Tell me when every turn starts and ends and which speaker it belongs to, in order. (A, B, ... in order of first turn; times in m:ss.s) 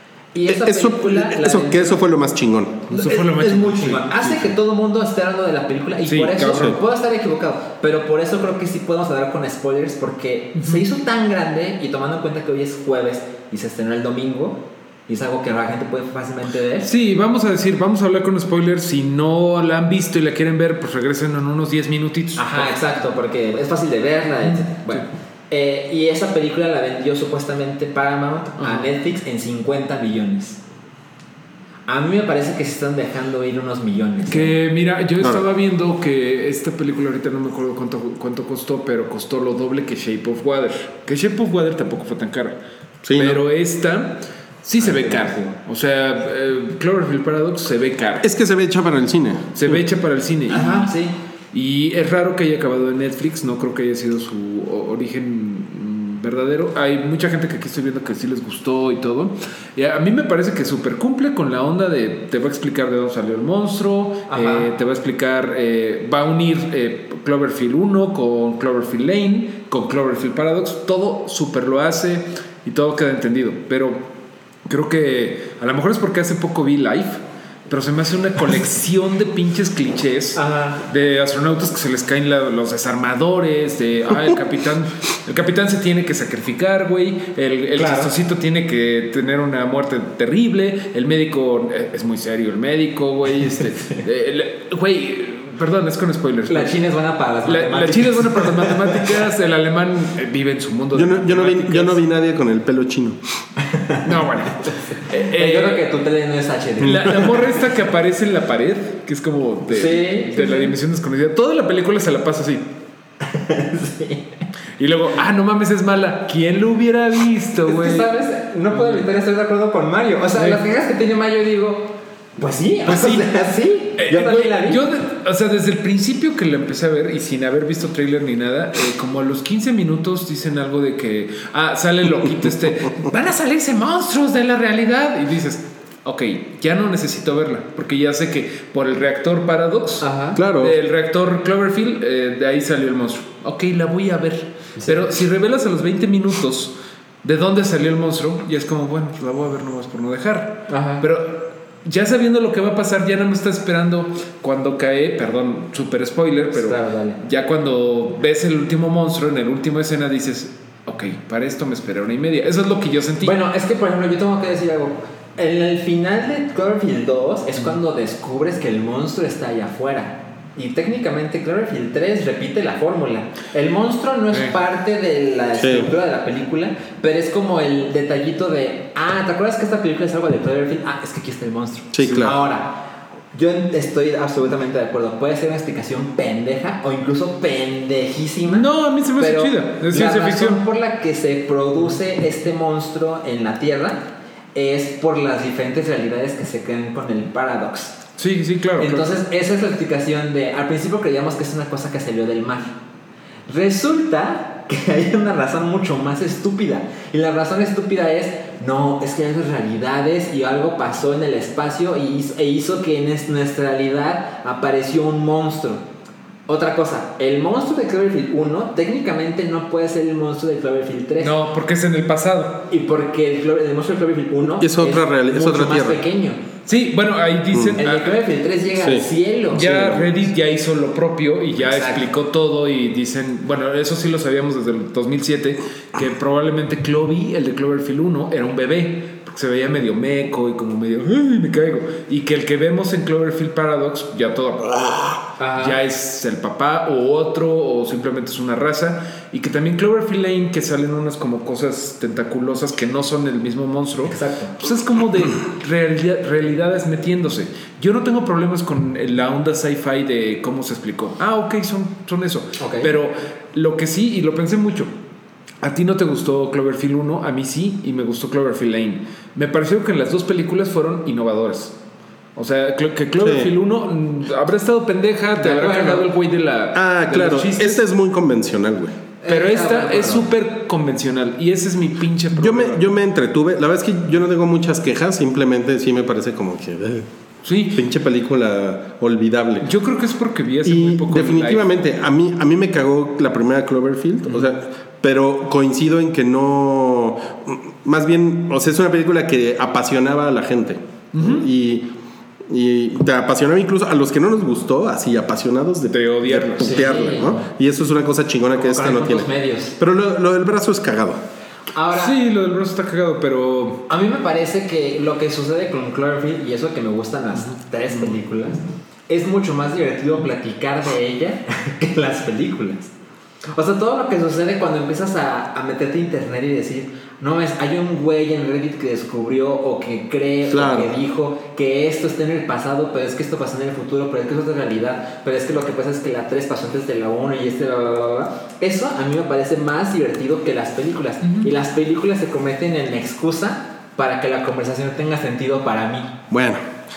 0:00.3-0:02.0 A
0:00.5-0:02.8 B
0:02.9-0:04.5 C
0:02.9-0:16.9 A
0:06.0-0:06.8 C
0:10.6-0:10.8 C
0:16.8-0:22.7 C
0:22.4-0:30.6 A
0:28.6-0:28.9 C
0:31.9-0:34.6 A
0:34.3-0:42.6 C
0:35.2-0:35.4 B
0:43.0-0:43.4 B
0:43.1-0:48.3 C
0:44.8-0:45.5 A
0:48.2-0:49.6 B
0:49.5-0:50.9 C
0:50.5-0:51.2 A
0:51.5-1:14.1 C
1:04.3-1:04.7 A
1:14.7-1:36.8 C
1:20.4-1:20.8 A
1:27.8-1:28.1 A
1:36.5-1:39.2 A
1:37.4-1:42.0 C
1:40.9-1:43.2 B
1:43.6-1:44.1 A
1:44.0-1:45.9 C
1:44.6-1:47.6 A
1:46.8-1:52.6 C
1:46.8-1:47.1 B
1:49.7-1:50.7 A
1:53.2-1:54.3 A
1:54.8-1:58.1 C
1:57.7-2:04.8 A
1:58.7-1:59.1 C
2:00.3-2:00.6 C
2:02.8-2:03.3 C
2:04.0-2:43.4 C
2:20.0-2:20.4 A
2:20.4-2:20.7 B
2:30.7-2:31.0 A
2:36.5-2:37.2 A
2:43.2-3:02.8 A
2:55.6-2:55.9 B
3:01.9-3:02.4 B
3:03.3-3:18.0 A
3:08.4-3:10.6 C
3:18.2-3:19.1 C
3:18.8-3:22.7 A
3:23.5-3:35.8 A
3:36.5-3:41.3 A
3:41.2-3:42.7 C
3:42.7-3:46.4 A
3:44.4-3:46.0 B
3:46.6-3:48.2 C
3:47.5-3:47.8 B
3:47.8-3:49.7 A
3:48.8-3:49.0 B
3:49.5-4:24.9 C
3:49.6-3:50.1 B
3:51.6-3:52.0 A
4:05.4-4:05.8 A
4:14.1-4:14.6 A
4:22.6-4:22.9 A
4:25.6-4:31.7 C
4:32.4-4:37.8 C
4:33.2-4:33.5 B
4:35.4-4:36.1 A
4:36.7-4:39.0 B
4:39.2-4:40.3 A
4:39.3-4:42.8 C
4:42.3-4:47.1 B
4:47.4-4:47.8 C
4:47.7-4:49.7 B
4:49.6-4:51.6 C
4:50.6-5:01.9 B
5:01.1-5:01.5 C
5:02.5-5:11.2 B
5:05.9-5:07.4 C
5:06.6-5:07.4 A
5:08.5-5:09.8 A
5:11.7-5:12.2 A
5:11.9-5:13.9 C
5:13.9-5:22.9 A
5:17.3-5:18.2 C
5:23.5-5:46.1 A
5:30.4-5:30.9 B
5:41.2-5:41.5 C
5:46.3-5:46.6 B